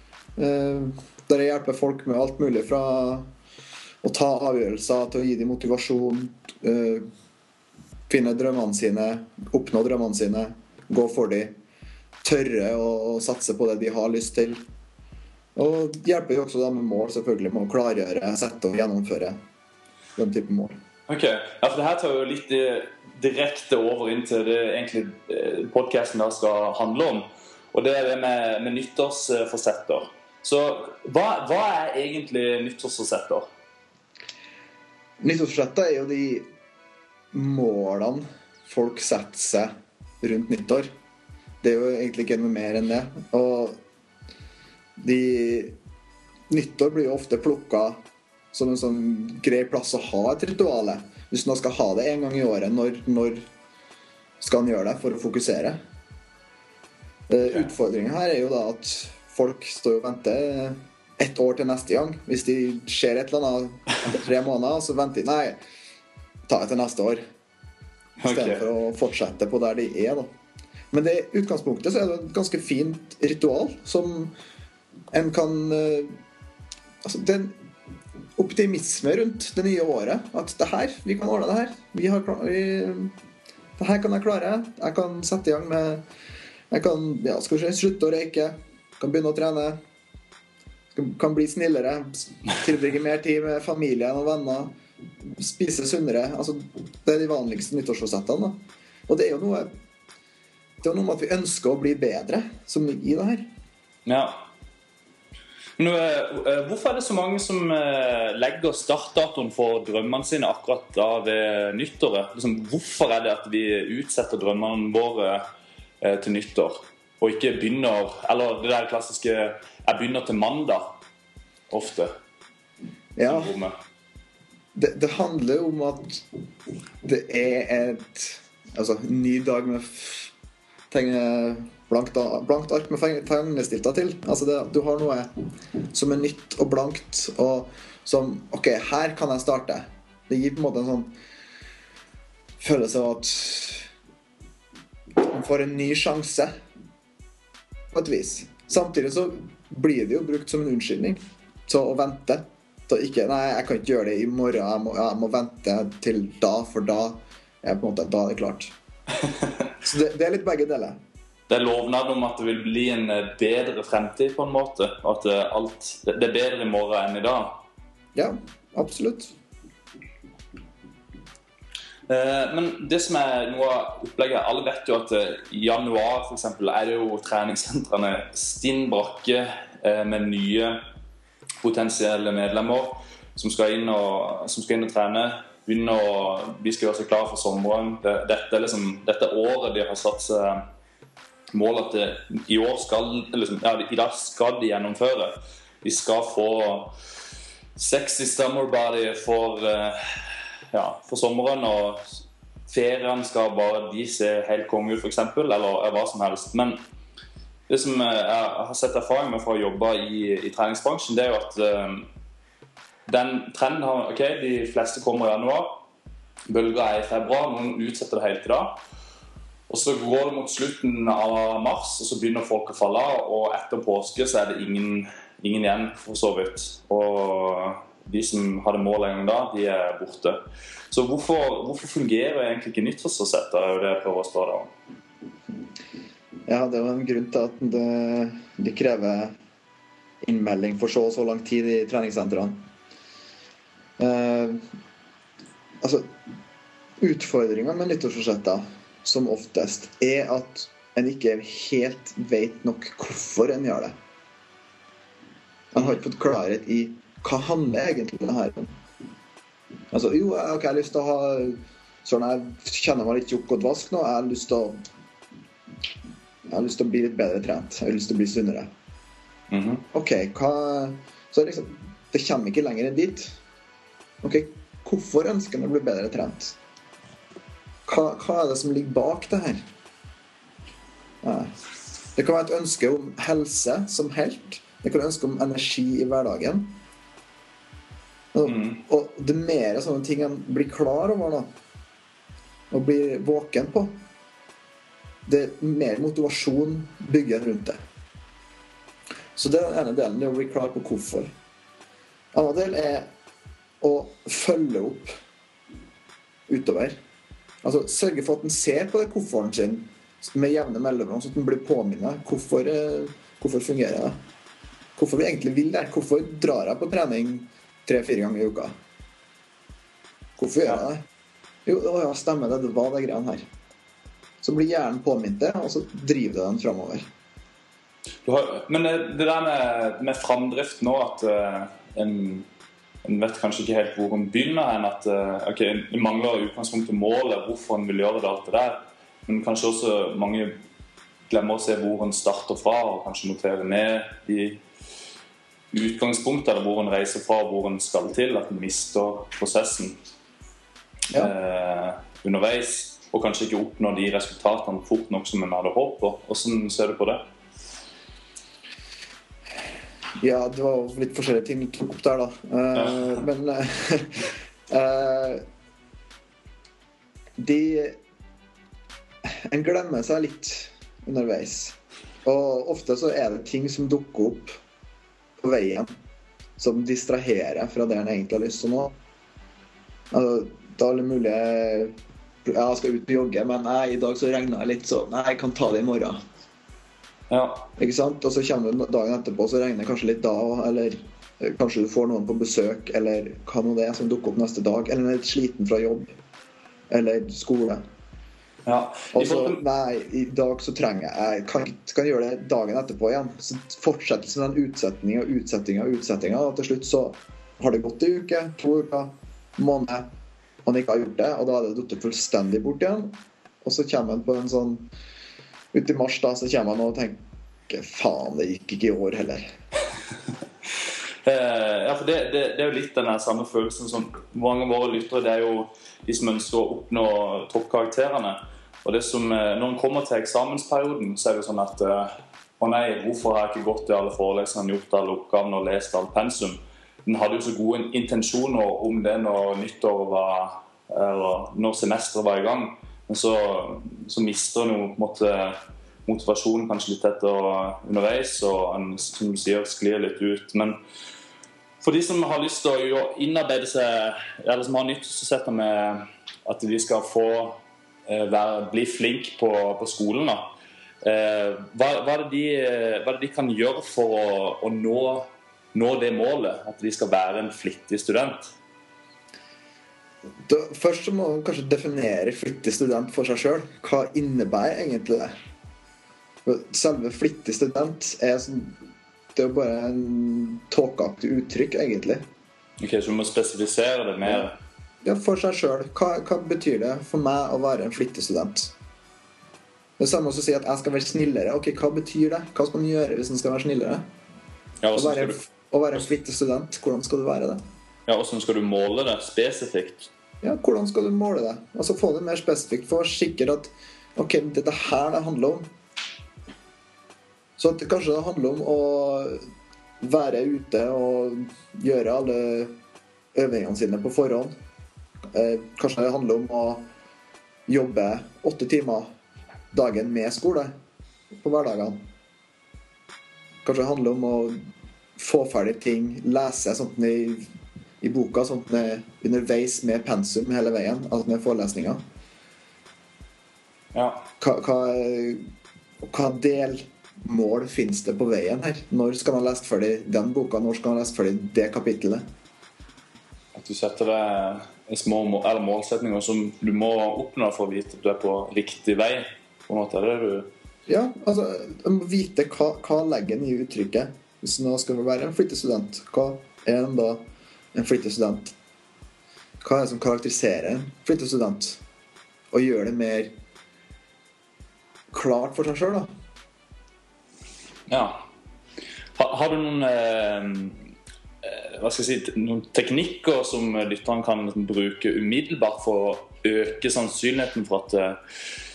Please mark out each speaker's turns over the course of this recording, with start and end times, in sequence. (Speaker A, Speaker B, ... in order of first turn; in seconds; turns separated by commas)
Speaker A: 0.4-3.3, Speaker A: 4.0-7.1, Speaker A: 8.1-11.5, Speaker A: 12.2-14.6, Speaker A: 15.6-19.4, Speaker A: 20.1-20.7, Speaker B: 21.1-33.5, Speaker A: 35.2-36.5, Speaker A: 37.3-40.9, Speaker A: 41.6-43.8, Speaker A: 45.0-45.7, Speaker A: 46.5-48.0, Speaker A: 48.5-53.4, Speaker A: 54.4-55.8, Speaker A: 57.3-65.6, Speaker A: 66.5-67.2, Speaker B: 68.2-68.6, Speaker A: 68.2-70.3, Speaker A: 70.9-74.3, Speaker A: 75.1-76.2, Speaker A: 77.0-77.5, Speaker A: 78.3-83.1, Speaker A: 83.8-86.0, Speaker A: 86.7-89.8, Speaker A: 90.9-99.7, Speaker A: 100.8-103.5, Speaker B: 104.0-104.4, Speaker B: 105.8-115.4, Speaker B: 116.0-121.0, Speaker B: 121.7-122.1, Speaker A: 123.2-123.6, Speaker B: 123.2-123.7, Speaker A: 124.7-126.2, Speaker A: 127.0-130.3, Speaker A: 130.9-135.3, Speaker A: 135.9-141.1, Speaker A: 142.6-143.9, Speaker A: 145.2-146.5, Speaker A: 147.9-158.7, Speaker A: 159.8-161.0, Speaker B: 161.5-167.6, Speaker A: 168.1-169.3, Speaker B: 172.1-180.8, Speaker B: 181.6-190.6, Speaker B: 191.5-196.9, Speaker B: 197.8-206.8, Speaker B: 207.7-212.1, Speaker B: 213.1-215.8, Speaker B: 216.5-218.8, Speaker B: 219.7-230.4, Speaker B: 230.9-234.7, Speaker A: 236.5-239.4, Speaker A: 240.2-242.6, Speaker A: 244.0-244.6, Speaker A: 245.8-246.1, Speaker A: 247.0-253.9, Speaker A: 255.7-258.7, Speaker A: 259.9-264.8, Speaker A: 266.5-268.7, Speaker B: 269.5-269.8, Speaker A: 269.9-273.4, Speaker A: 274.2-276.6, Speaker A: 277.9-279.6, Speaker A: 281.2-281.5, Speaker A: 282.1-286.8, Speaker A: 288.3-291.5, Speaker B: 288.4-288.8, Speaker A: 292.7-293.9, Speaker A: 295.2-297.8, Speaker A: 299.4-301.3, Speaker A: 302.3-303.1, Speaker A: 303.8-305.1, Speaker A: 306.5-307.0, Speaker A: 307.6-314.2, Speaker A: 314.9-318.7, Speaker A: 320.4-321.0, Speaker A: 321.6-323.4, Speaker A: 324.4-327.1, Speaker B: 328.2-332.4, Speaker B: 333.0-340.6, Speaker B: 341.3-344.6, Speaker B: 345.7-350.0, Speaker B: 351.1-357.2, Speaker A: 360.2-365.4, Speaker B: 362.8-363.1, Speaker A: 367.4-368.0, Speaker A: 369.2-374.5, Speaker A: 375.4-375.9, Speaker A: 376.6-378.9, Speaker A: 380.1-386.2, Speaker B: 387.3-387.7, Speaker A: 387.8-396.1, Speaker A: 396.9-397.8, Speaker B: 398.6-399.6, Speaker A: 399.1-410.1, Speaker A: 410.6-414.9, Speaker A: 415.7-419.5, Speaker B: 421.2-450.8, Speaker B: 451.8-460.5, Speaker B: 461.0-468.5, Speaker A: 470.4-475.3, Speaker A: 476.4-478.7, Speaker A: 479.3-482.2, Speaker B: 482.8-484.6, Speaker A: 485.0-488.7, Speaker A: 490.0-494.0, Speaker B: 494.8-495.4, Speaker A: 494.9-497.6, Speaker B: 498.1-500.1, Speaker A: 500.4-505.7, Speaker A: 507.6-509.4, Speaker A: 510.0-512.7, Speaker A: 513.3-514.5, Speaker A: 515.3-516.9, Speaker A: 517.7-519.1, Speaker A: 519.7-520.7, Speaker A: 521.3-522.0, Speaker A: 523.6-524.6, Speaker A: 525.2-527.5, Speaker A: 528.0-532.0, Speaker B: 533.9-534.3, Speaker A: 534.4-535.4, Speaker A: 536.0-542.2, Speaker B: 543.5-550.5, Speaker A: 550.9-558.5, Speaker A: 559.6-561.8, Speaker A: 562.5-563.3, Speaker A: 565.1-566.1, Speaker B: 567.9-568.2, Speaker B: 569.1-570.9, Speaker B: 571.4-578.2